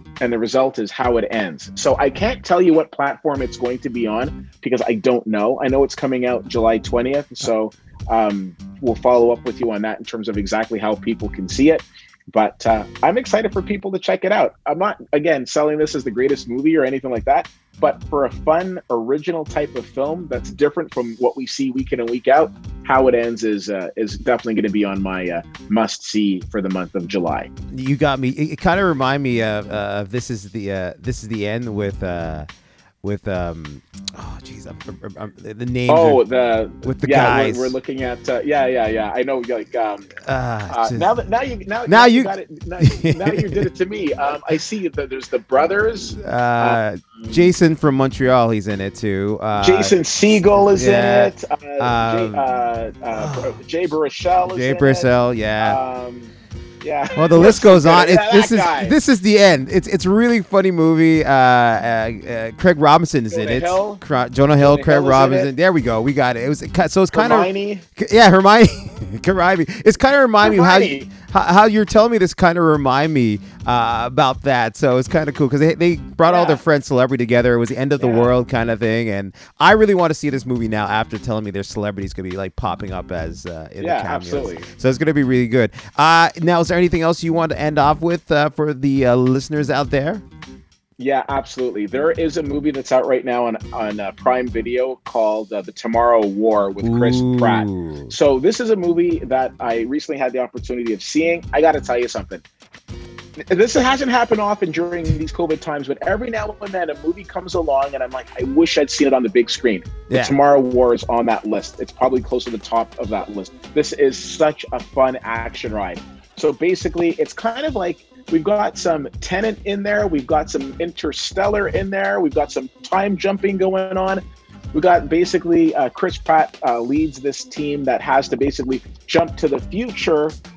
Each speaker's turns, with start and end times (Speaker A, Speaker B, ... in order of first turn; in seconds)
Speaker A: 0.2-27.5, 35.9-40.1, 40.7-47.5, 49.6-55.1, 55.6-59.0, 63.3-64.0, 64.6-65.5, 67.1-67.8, 70.4-71.1, 76.2-76.6, 78.0-78.3, 83.8-84.7, 91.0-102.4, 103.5-124.2, 124.7-130.4
Speaker B: 27.7-32.5, 33.0-36.2, 36.8-37.8, 40.2-41.1, 41.9-43.6, 46.2-49.9, 50.6-52.4, 53.1-53.5, 54.5-55.8, 57.1-90.2, 96.8-98.1, 110.1-110.3